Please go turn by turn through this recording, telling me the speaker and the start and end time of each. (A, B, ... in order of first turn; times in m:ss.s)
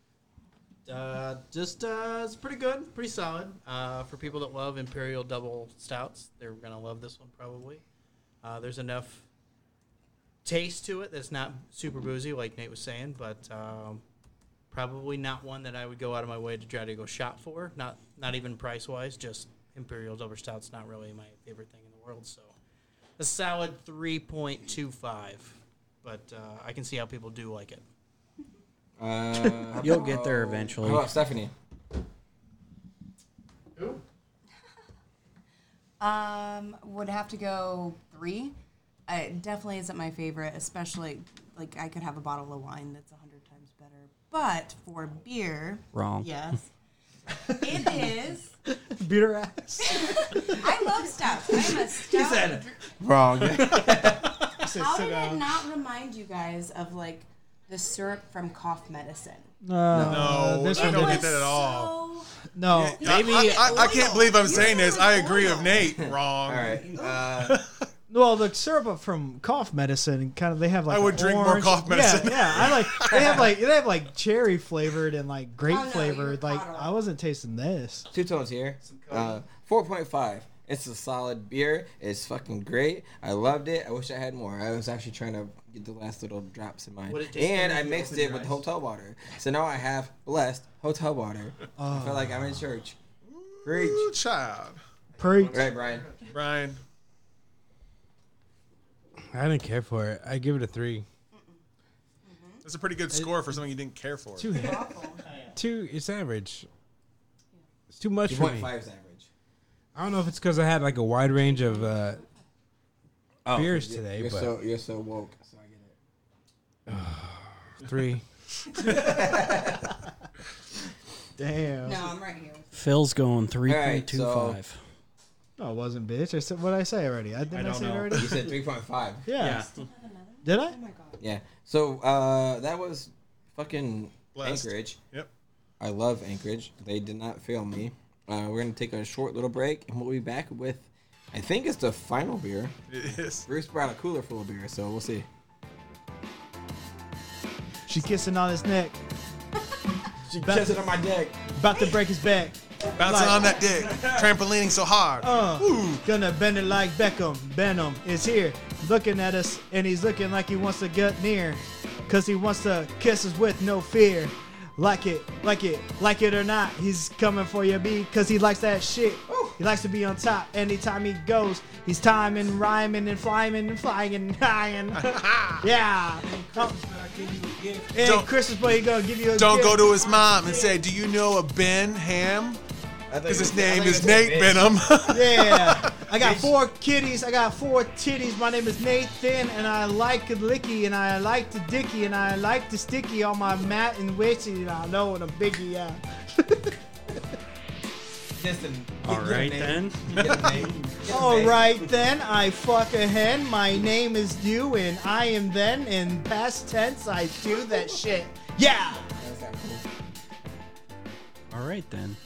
0:00.9-0:07.8 A
0:08.4-0:09.2 A
0:10.4-0:14.0 A
0:14.7-0:22.6 A
0:23.2-0:27.8 A
0:29.0-0:31.5 B
0:29.8-0:31.1 C
0:33.8-0:34.0 A
0:36.0-0:38.6 D
0:39.1-0:46.7 D
0:45.9-0:46.3 C
0:47.5-0:48.1 E
0:47.6-0:48.5 D
0:48.7-0:50.6 E
0:49.8-0:52.7 D
0:51.5-0:51.8 E
0:53.0-0:54.3 B
0:54.1-0:55.5 E
0:54.7-0:59.5 D
0:59.6-1:01.4 E
0:59.9-1:00.4 B
1:00.1-1:02.0 F
1:00.7-1:02.3 D
1:02.6-1:03.1 E
1:02.7-1:07.8 F
1:03.0-1:06.0 D
1:03.0-1:03.8 C
1:05.8-1:07.6 B
1:06.6-1:07.3 D
1:08.1-1:18.1 E
1:10.9-1:13.5 F
1:15.6-1:17.0 D
1:18.1-1:33.0 B
1:18.8-1:19.4 A
1:27.1-1:28.6 A
1:31.8-1:32.4 E
1:33.3-1:34.8 F
1:33.6-1:34.1 B
1:35.1-1:36.4 A
1:35.2-1:35.7 E
1:35.5-1:36.1 B
1:36.3-1:36.8 F
1:39.3-1:41.0 G
1:41.3-1:41.6 D
1:42.2-1:42.6 D
1:42.6-1:44.5 F
1:43.1-1:43.4 G
1:44.4-1:45.0 G
1:44.5-1:45.3 D
1:45.2-1:45.6 A
1:45.5-1:46.7 G
1:47.9-1:48.7 G
1:48.3-1:49.3 B
1:50.0-1:52.2 G
1:51.4-1:51.9 D
1:53.4-1:56.0 B
1:53.5-1:54.5 G
1:56.9-1:58.2 G
1:58.8-1:59.9 B
2:01.4-2:02.1 E
2:01.8-2:02.7 D
2:02.7-2:04.8 C
2:03.7-2:04.6 B
2:05.6-2:08.5 E
2:07.5-2:08.5 C
2:08.1-2:09.3 B
2:09.3-2:09.7 E
2:09.4-2:09.7 C
2:09.6-2:11.2 D
2:10.4-2:10.8 E
2:11.2-2:15.0 B
2:14.4-2:15.3 F
2:15.8-2:22.8 B
2:22.9-2:23.5 F
2:23.5-2:25.3 B
2:27.9-2:29.0 E
2:30.3-2:31.4 B
2:30.4-2:30.8 E
2:31.6-2:33.5 E
2:31.8-2:32.0 D
2:33.0-2:36.1 F
2:33.8-2:34.2 G
2:35.2-2:56.8 E
2:49.3-2:49.6 B
2:55.0-2:55.6 F
2:56.2-2:58.0 G
2:57.9-3:00.0 E
2:58.0-2:58.3 F
2:59.3-3:02.6 F
3:00.2-3:00.6 G
3:03.1-3:04.9 B
3:03.3-3:06.1 F
3:05.1-3:16.8 E
3:06.2-3:06.5 B
3:18.4-3:21.9 B
3:19.0-3:20.4 C
3:20.2-3:20.5 F
3:21.1-3:29.1 E
3:29.2-3:29.8 B
3:31.5-3:32.2 C